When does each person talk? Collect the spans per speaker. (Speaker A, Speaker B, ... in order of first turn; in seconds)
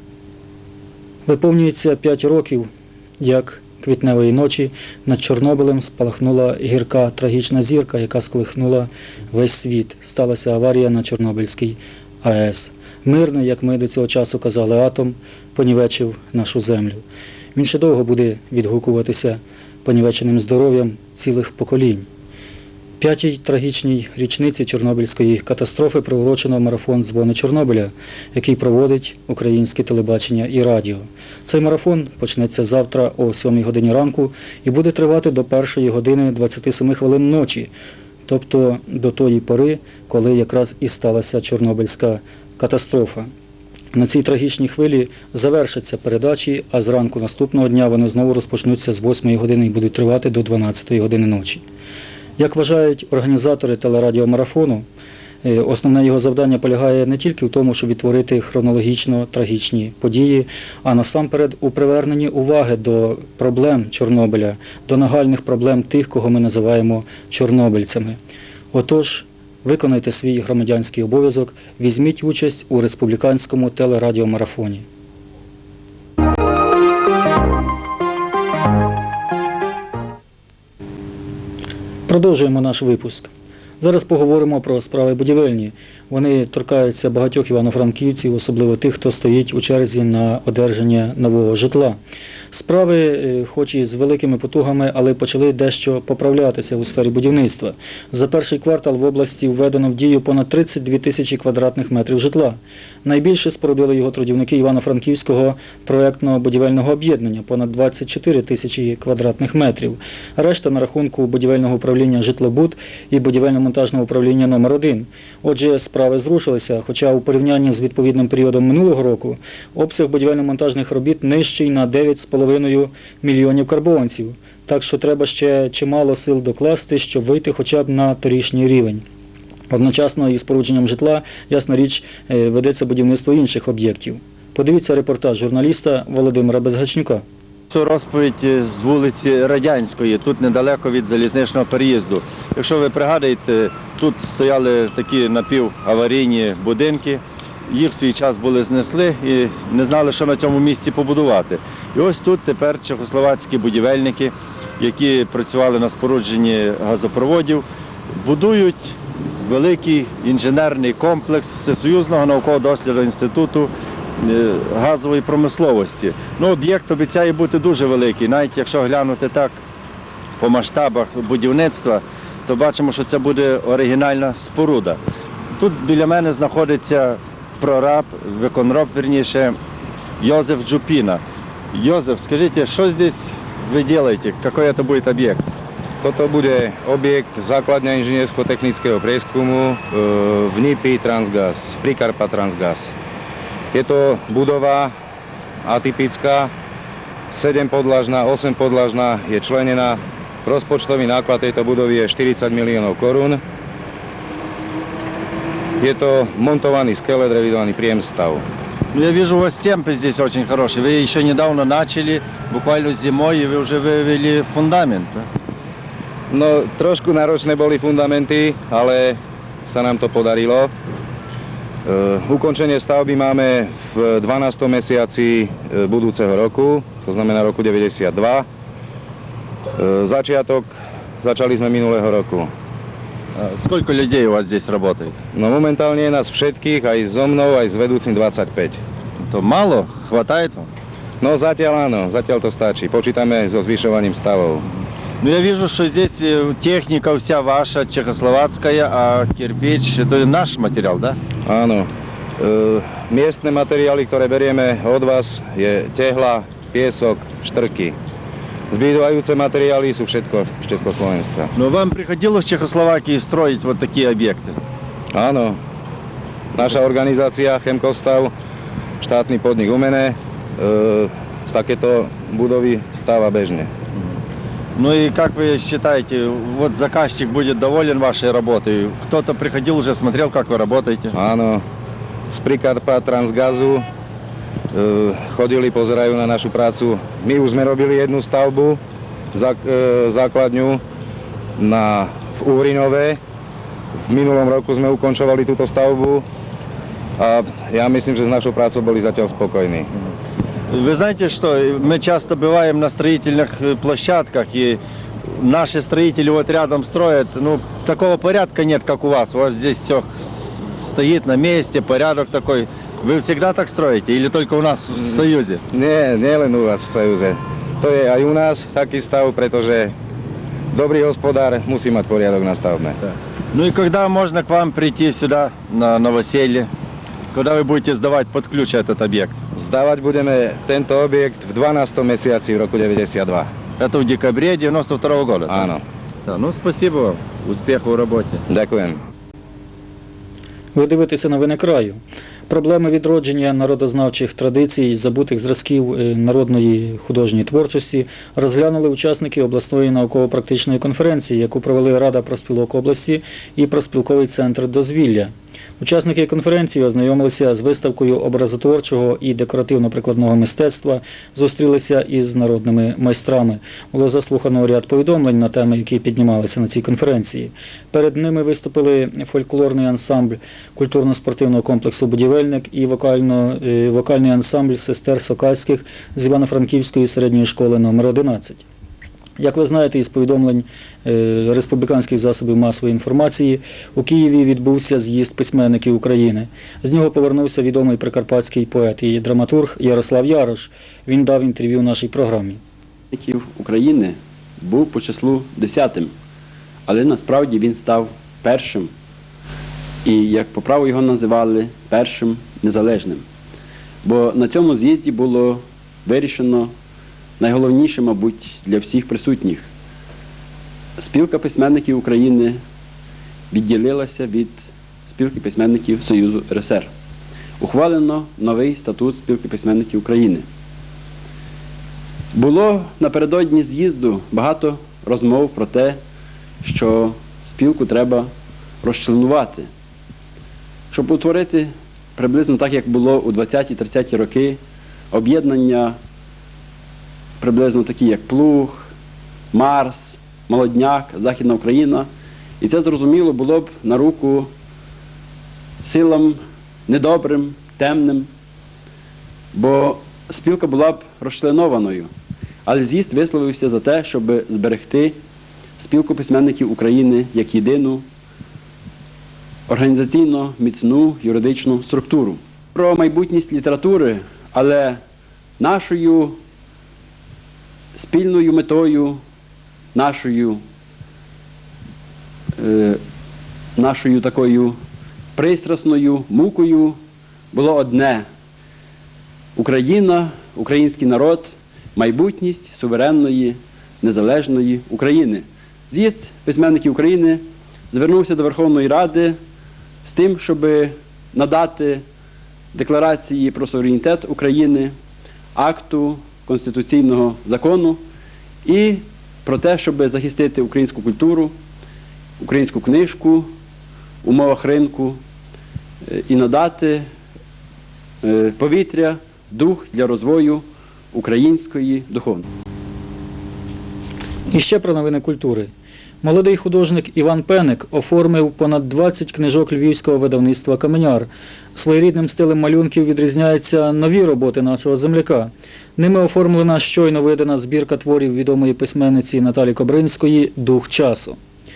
Speaker A: 1.3-17.0, 17.6-22.1, 23.0-37.7, 38.3-43.3, 43.9-51.6, 52.4-54.9, 55.4-68.2, 68.7-74.8, 82.1-92.0, 92.5-129.0, 129.7-137.2, 340.8-378.7, 379.4-392.6, 514.5-515.7, 516.2-531.4
Speaker B: 137.7-169.6, 170.4-175.0, 175.6-179.6, 180.2-181.2, 181.7-185.5, 208.9-215.3, 233.4-235.2, 239.2-240.7, 245.2-251.2, 261.6-264.6, 274.8-281.1, 300.7-315.6, 323.5-326.7, 327.3-329.4, 333.8-335.6, 336.3-338.4
Speaker C: 186.0-193.0, 193.7-194.9, 195.6-196.5, 197.3-203.4, 205.8-208.4, 216.3-220.7, 221.8-228.5, 229.8-232.5, 235.3-238.8, 241.2-244.7, 251.4-258.0, 258.7-261.5, 265.1-265.6, 266.6-268.3, 269.0-273.7, 281.1-281.6, 282.3-283.9, 284.7-288.8, 289.3-290.8, 291.6-293.2, 294.1-296.3, 297.2-299.9, 315.7-319.9, 320.7-323.0, 329.5-333.5, 335.5-335.8, 338.5-339.0
Speaker D: 393.1-396.1, 396.9-398.9, 400.1-403.2, 404.0-406.7, 407.4-409.7, 411.0-412.6, 413.5-416.9, 417.6-420.5, 422.3-426.0, 426.6-428.3, 428.8-429.7, 430.9-434.6, 435.1-436.0, 437.4-438.9, 439.5-442.1, 442.6-444.5, 445.8-448.3, 449.5-452.1, 452.7-455.2, 455.8-458.1, 459.7-465.0, 465.6-466.4, 468.0-469.2, 469.9-470.6, 472.6-473.0, 473.8-474.8, 475.4-477.0, 477.5-478.2, 479.6-489.4, 490.1-492.0, 492.7-494.9, 495.6-498.0, 498.6-501.5, 502.4-503.5, 504.2-505.2, 506.0-507.1, 508.2-512.5